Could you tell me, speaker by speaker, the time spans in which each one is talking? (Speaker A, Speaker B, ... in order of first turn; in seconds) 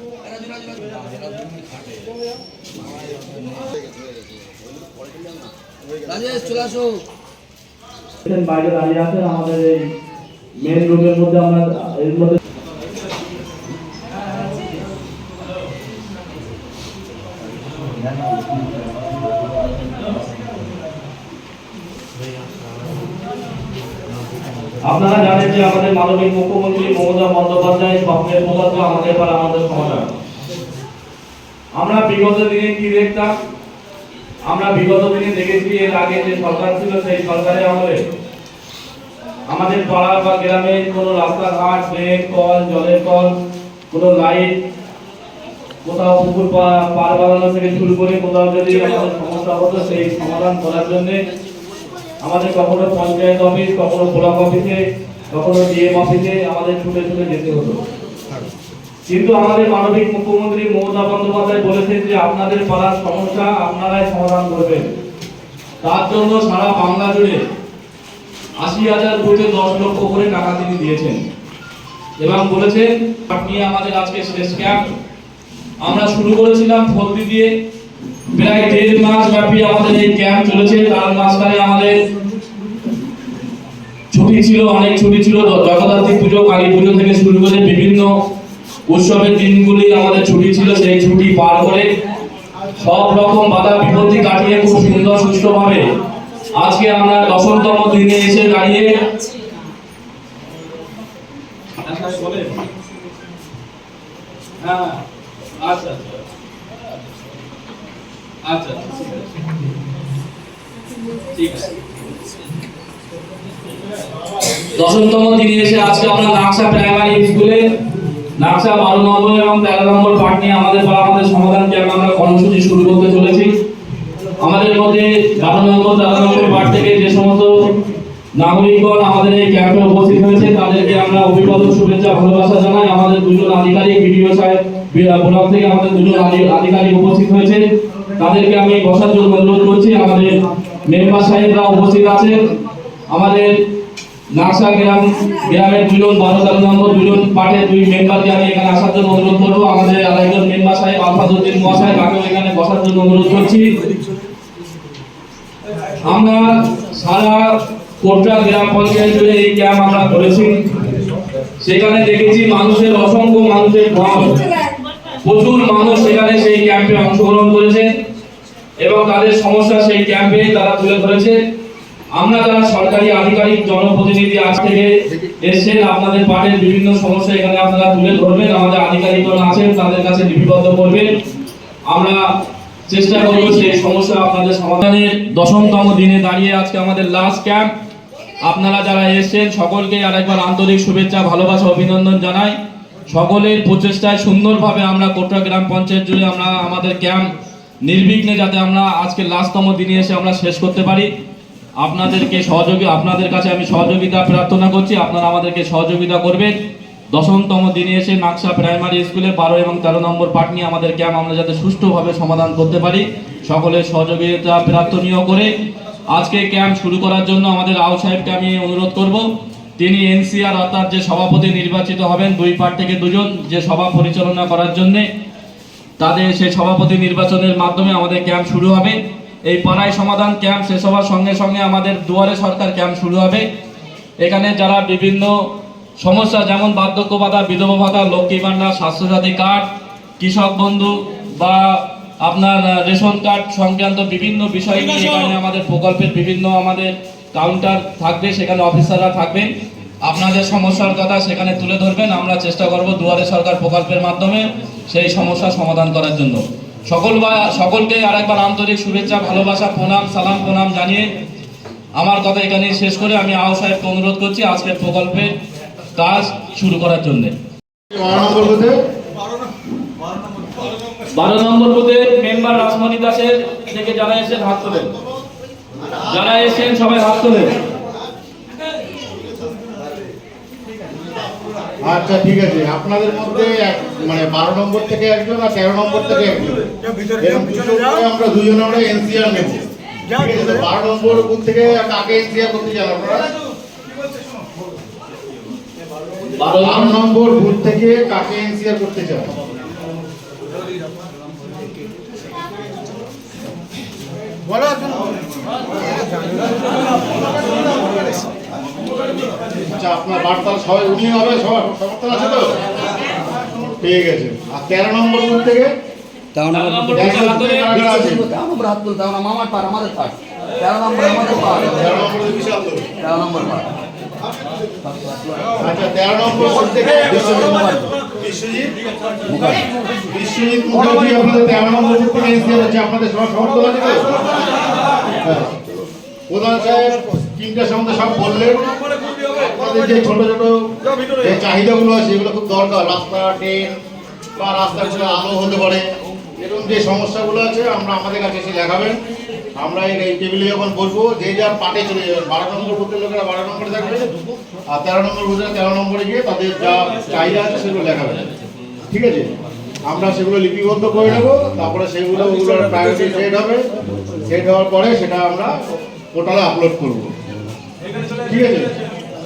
Speaker A: 0.3-1.6, 5.0-5.5, 6.1-7.0, 316.4-317.0, 317.7-321.9, 323.0-323.7, 324.8-325.5, 326.7-327.6, 329.3-329.7
Speaker B: 8.2-9.9, 10.6-12.4, 24.9-30.1, 31.8-33.4, 34.5-38.0, 39.5-43.4, 43.9-44.6, 45.9-51.2, 52.2-57.8, 59.1-64.9, 65.8-67.4, 68.6-71.2, 72.2-74.9, 75.8-77.5, 78.3-82.0, 84.1-88.1, 88.9-91.9, 92.8-95.8, 96.6-99.0, 101.8-102.6, 104.6-105.0, 105.6-106.2, 108.5-109.2, 111.3-111.7, 114.7-117.6, 118.4-123.5, 124.4-127.7, 128.4-137.6, 138.2-140.3, 140.9-142.5, 143.1-143.6, 144.3-153.8, 156.0-157.5, 158.0-160.7, 161.6-164.5, 165.2-167.9, 168.8-171.4, 172.2-181.1, 181.9-182.2, 182.9-187.7, 188.4-192.6, 193.1-197.3, 197.8-201.1, 201.8-206.5, 207.1-215.5, 216.1-225.1, 226.0-233.5, 234.2-235.4, 236.0-239.7, 240.2-249.5, 250.0-261.1, 262.0-265.3, 266.0-267.4, 271.1-274.9, 276.1-277.5, 296.4-297.0, 316.5-317.7
Speaker C: 267.9-268.8, 281.8-293.3, 296.6-299.3, 309.7-312.6, 313.6-315.7, 316.9-318.3, 321.6-322.9, 325.6-328.8, 330.0-334.2, 335.2-335.6, 336.3-338.6, 339.3-343.7, 344.4-349.0, 349.6-354.1, 354.7-358.3, 358.9-359.3, 359.9-363.6, 364.3-365.5, 366.1-367.1, 368.2-368.7